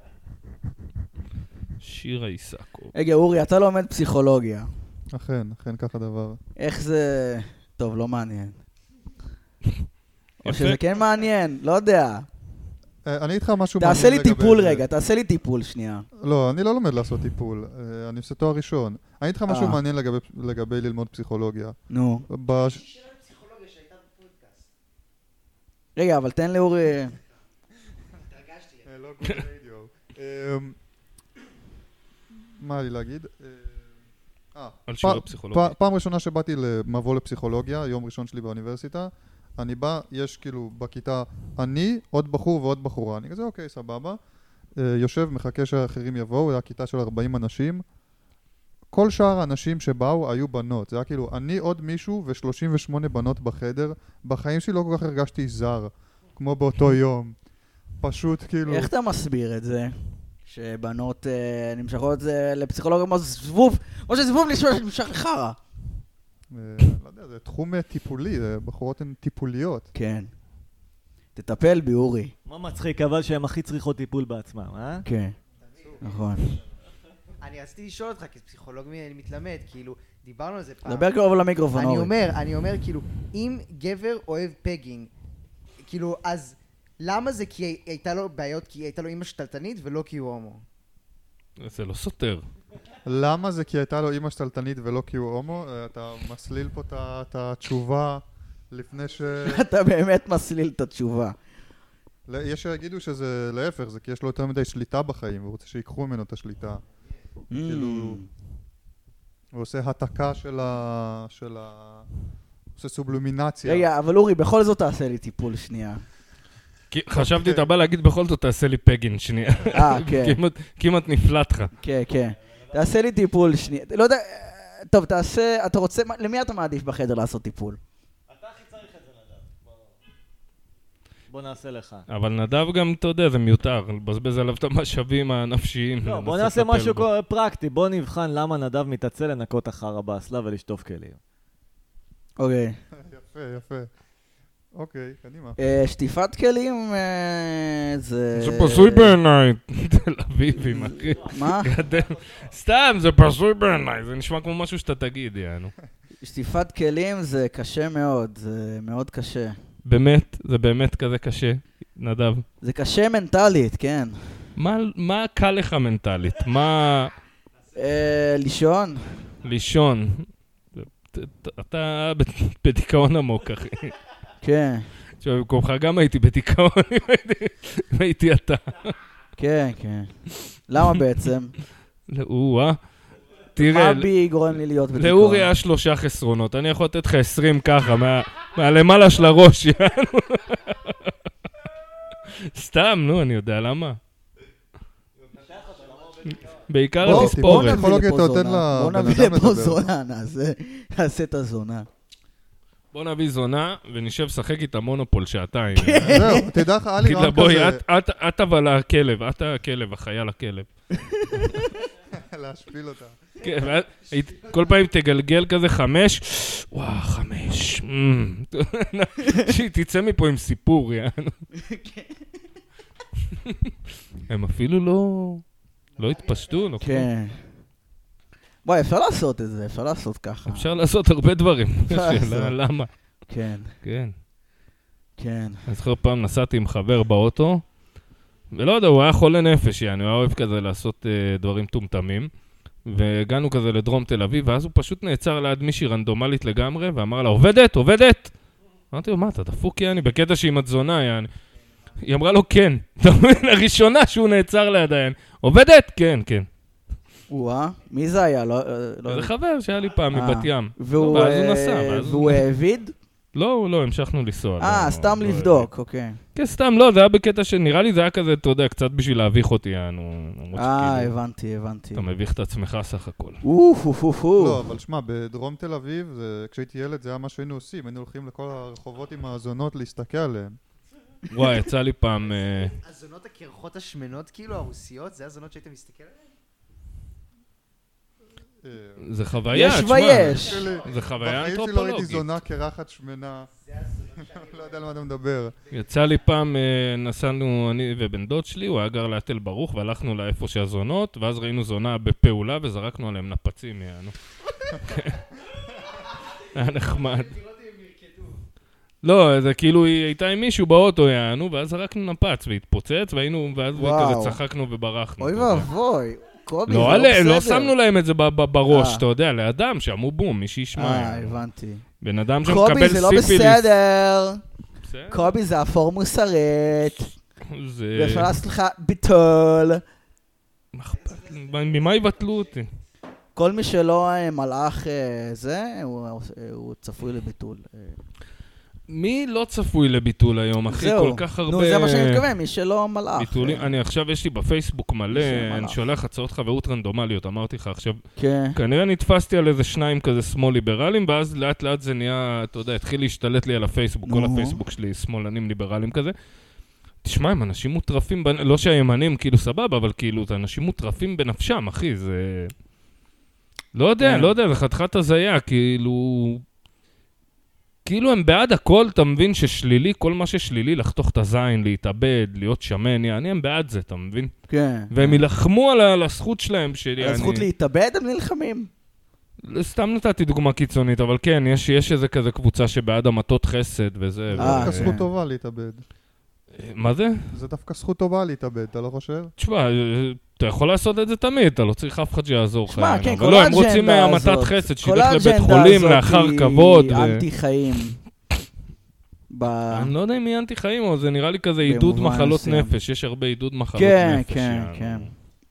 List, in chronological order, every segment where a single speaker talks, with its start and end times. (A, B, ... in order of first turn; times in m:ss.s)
0:01.8-0:02.9 A
0:02.9-0:04.7 B
0:05.1-0:06.4 C
0:06.6-0:08.6 B
0:10.4-0:12.3 B
0:10.4-0:10.8 A
0:13.0-0:14.8 C
0:13.8-0:16.0 B
0:16.2-0:21.8 C
0:19.5-0:19.8 B
0:21.9-0:22.3 B
0:22.3-0:22.8 C
0:22.6-0:24.7 D
0:26.0-0:27.1 B
0:28.2-0:28.8 D
0:28.8-0:30.8 C
0:32.6-0:33.9 C
0:34.5-0:44.2 C
0:34.9-0:35.7 A
0:44.8-0:47.8 C
0:48.9-0:57.4 C
0:58.0-0:58.9 C
0:58.7-1:05.6 B
1:06.5-1:09.9 C
1:09.9-1:10.3 B
1:11.4-1:12.3 B
1:12.4-1:15.0 E
1:15.0-1:15.4 B
1:15.6-1:16.6 D
1:16.0-1:16.5 B
1:17.4-1:21.1 D
1:20.8-1:22.1 B
1:21.7-1:25.1 D
1:25.8-1:30.6 D
1:31.6-1:32.4 A
1:33.0-1:39.6 C
1:39.4-1:41.4 B
1:42.3-1:46.8 C
1:47.5-1:48.3 B
1:47.6-1:48.2 C
1:49.5-1:52.1 C
1:52.8-1:53.8 C
1:53.6-1:56.0 B
1:56.9-2:01.7 A
1:57.1-1:57.7 C
1:59.7-2:00.4 B
2:01.8-2:07.8 B
2:08.3-2:09.9 E
2:11.3-2:12.0 E
2:12.1-2:17.1 A
2:16.0-2:21.2 E
2:22.4-2:22.8 B
2:22.9-2:23.9 C
2:24.7-2:25.6 C
2:25.6-2:29.2 B
2:28.3-2:35.7 A
2:30.6-2:31.7 B
2:36.2-2:39.6 B
2:39.8-2:42.4 A
2:42.6-2:44.2 B
2:44.6-2:47.1 A
2:47.7-2:49.2 B
2:49.4-2:53.9 A
2:54.4-2:54.9 B
2:55.2-2:59.0 A
2:59.4-3:00.1 B
3:00.7-3:01.5 B
3:02.1-3:02.8 A
3:03.6-3:04.1 A
3:03.6-3:05.5 B
3:04.9-3:11.1 A
3:12.3-3:14.0 A
3:15.2-3:16.6 E
3:16.7-3:17.8 A
3:17.0-3:19.8 C
3:17.0-3:21.9 B
3:22.9-3:26.4 A
3:25.7-3:26.5 B
3:26.0-3:27.8 C
3:27.0-3:30.7 A
3:30.9-3:31.7 B
3:32.1-3:33.2 C
3:33.4-3:41.4 A
3:39.2-3:39.5 B
3:41.5-3:42.3 B
3:44.3-3:45.4 A
3:46.0-3:47.1 A
3:46.0-3:46.8 D
3:46.8-3:47.4 B
3:48.6-3:50.7 B
3:50.5-3:52.9 A
3:51.9-3:52.5 B
3:53.3-3:53.7 B
3:53.8-3:54.1 A
3:55.2-3:55.6 B
3:55.7-3:57.6 A
3:58.5-4:02.3 A
4:02.8-4:08.3 A
4:08.9-4:11.3 A
4:12.0-4:16.5 A
4:17.3-4:19.3 B
4:19.1-4:22.4 A
4:20.1-4:22.9 B
4:23.3-4:25.7 A
4:24.6-4:26.2 B
4:26.3-4:31.1 A
4:30.5-4:32.1 B
4:31.9-4:33.4 A
4:33.4-4:34.6 B
4:34.4-4:40.6 C
4:41.3-4:42.7 A
4:42.3-4:46.3 D
4:48.6-4:49.0 C
4:49.0-4:52.4 A
4:49.5-4:50.7 B
4:50.2-4:53.5 C
4:50.6-4:50.9 D
4:53.5-4:55.0 D
4:54.4-4:55.6 C
4:55.6-4:56.2 D
4:55.7-5:04.1 A
5:04.8-5:05.2 A
5:05.7-5:08.4 D
5:06.5-5:07.4 A
5:09.0-5:15.7 A
5:13.8-5:14.4 B
5:15.2-5:17.7 B
5:16.7-5:21.4 A
5:18.7-5:19.0 B
5:20.7-5:21.8 B
5:22.0-5:23.7 A
5:22.4-5:24.4 B
5:24.8-5:25.3 A
5:25.1-5:27.1 B
5:27.5-5:28.3 A
5:27.9-5:29.8 B
5:30.7-5:32.7 A
5:31.0-5:32.2 D
5:33.4-5:38.0 B
5:38.9-5:42.2 A
5:40.7-5:43.7 B
5:43.2-5:48.0 A
5:45.1-5:45.8 B
5:48.2-5:48.6 B
5:48.5-5:56.1 A
5:54.0-5:54.6 B
5:57.0-6:02.5 A
6:03.7-6:06.4 A
6:04.0-6:04.3 B
6:07.8-6:14.3 A
6:14.5-6:15.2 B
6:14.9-6:17.5 A
6:17.0-6:18.7 B
6:19.4-6:25.0 A
6:24.3-6:25.8 C
6:24.4-6:25.1 B
6:26.5-6:27.3 A
6:27.3-6:29.3 C
6:29.4-6:37.2 A
6:32.7-6:38.0 B
6:39.3-6:39.9 B
6:39.7-6:45.1 A
6:41.6-6:42.7 B
6:43.7-6:45.1 B